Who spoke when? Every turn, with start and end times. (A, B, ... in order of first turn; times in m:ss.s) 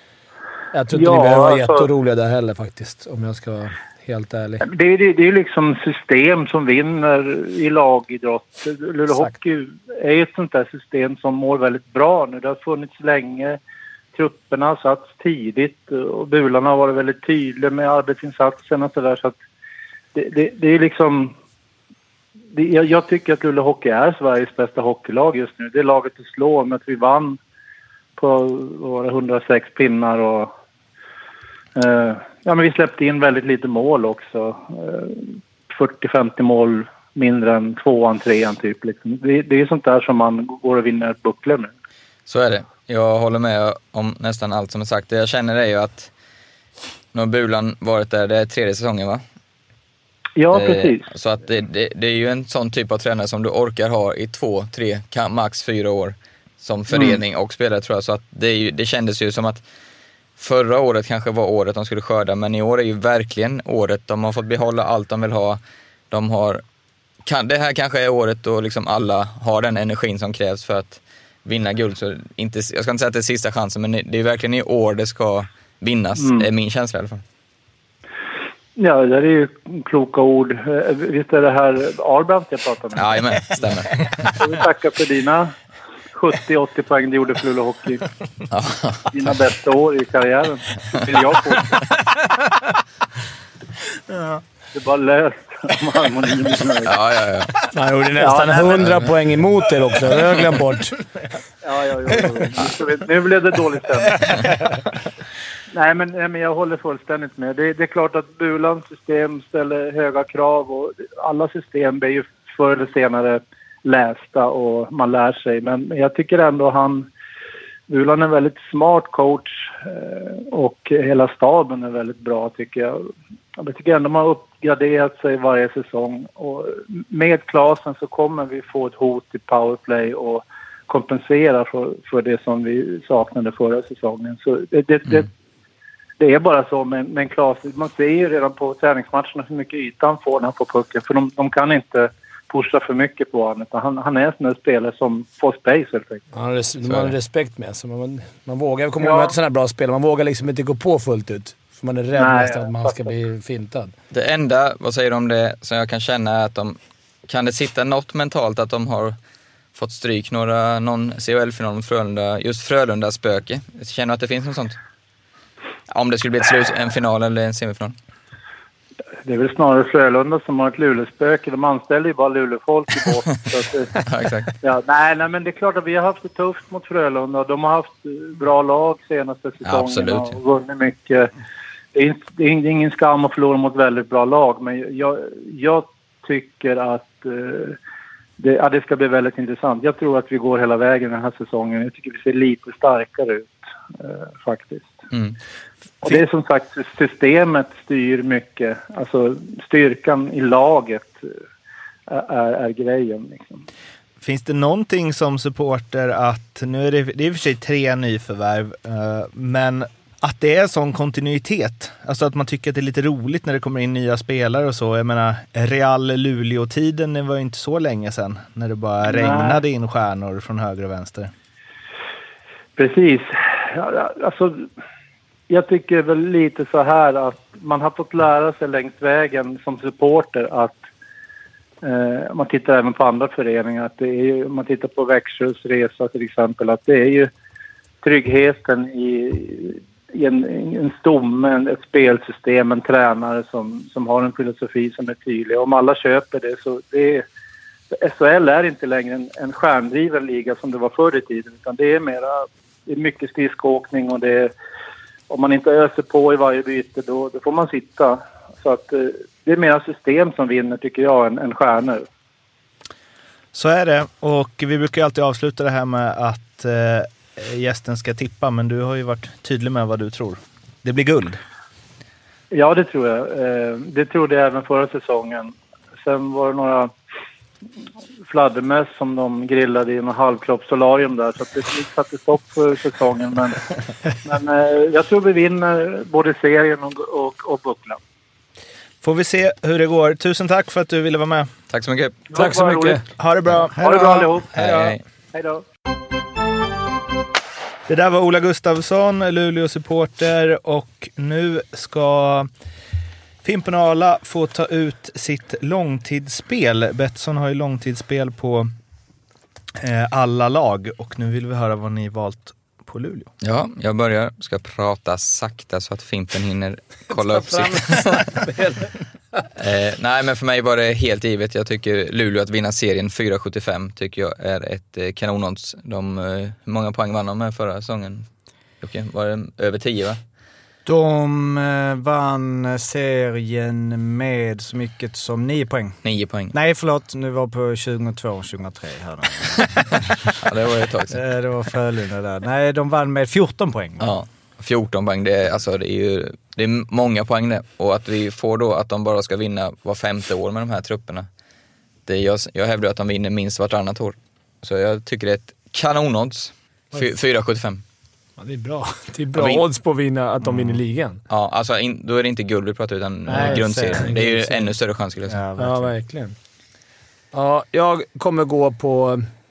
0:00.7-0:04.6 A
0:00.9-0:01.9 B
0:04.6-0:13.6 B
0:14.2-0:19.4 B
0:20.2-0:21.3 B
0:22.5-0:27.4 B
0:28.2-0:30.5 B
0:31.8-0:41.7 B
0:42.3-0:46.1 C
0:47.1-0:49.2 C
0:50.4-0:51.1 B
0:50.5-0:59.6 C
0:56.9-0:57.2 B
1:00.4-1:05.6 C
1:06.1-1:06.6 C
1:07.2-1:17.2 C
1:16.2-1:16.5 B
1:18.8-1:23.4 B
1:23.0-1:24.5 C
1:24.4-1:25.6 B
1:26.1-1:28.0 B
1:28.5-1:29.1 C
1:29.1-1:31.9 B
1:34.1-1:34.4 D
1:34.7-1:37.0 B
1:36.8-1:37.6 C
1:37.7-1:41.0 A
1:38.2-1:38.8 B
1:38.8-1:39.1 C
1:41.6-1:44.5 B
1:45.7-1:57.1 B
1:57.9-2:15.3 B
2:16.2-2:26.2 B
2:26.3-2:33.9 A
2:26.8-2:27.2 C
2:29.0-2:29.4 B
2:32.2-2:33.0 B
2:34.1-2:39.2 C
2:39.8-2:44.8 C
2:45.9-2:48.0 C
2:49.2-2:53.9 B
2:54.0-2:54.5 C
2:54.6-3:01.3 B
2:59.6-3:00.4 C
3:02.0-3:07.8 B
3:08.4-3:15.0 B
3:16.0-3:21.3 B
3:22.1-3:23.6 B
3:24.2-3:41.3 D
3:39.1-3:39.6 B
3:42.8-3:44.7 B
3:45.5-3:50.8 B
3:51.8-3:57.3 B
3:58.0-4:07.2 B
4:07.9-4:14.5 B
4:15.3-4:22.1 B
4:23.5-4:31.4 D
4:32.5-4:36.9 B
4:38.3-4:43.6 B
4:44.2-4:48.0 B
4:49.0-4:51.5 D
4:51.7-4:52.3 C
4:52.3-4:53.1 B
4:52.3-4:53.0 A
4:53.2-4:54.4 D
4:53.7-4:55.6 B
4:54.6-4:55.0 C
4:57.9-5:02.5 D
5:03.4-5:08.7 D
5:09.8-5:13.3 D
5:13.4-5:18.3 C
5:17.1-5:18.9 A
5:19.6-5:28.3 C
5:28.8-5:30.2 C
5:30.8-5:36.0 E
5:36.0-5:36.5 C
5:36.5-5:40.1 E
5:40.4-5:41.2 C
5:41.1-5:44.2 E
5:44.0-5:51.3 C
5:52.1-5:57.8 C
5:58.4-6:01.2 A
5:59.3-5:59.6 C
6:01.3-6:05.4 C
6:03.3-6:04.7 A
6:03.4-6:04.1 E
6:05.3-6:05.9 E
6:05.6-6:06.4 A
6:07.3-6:09.3 A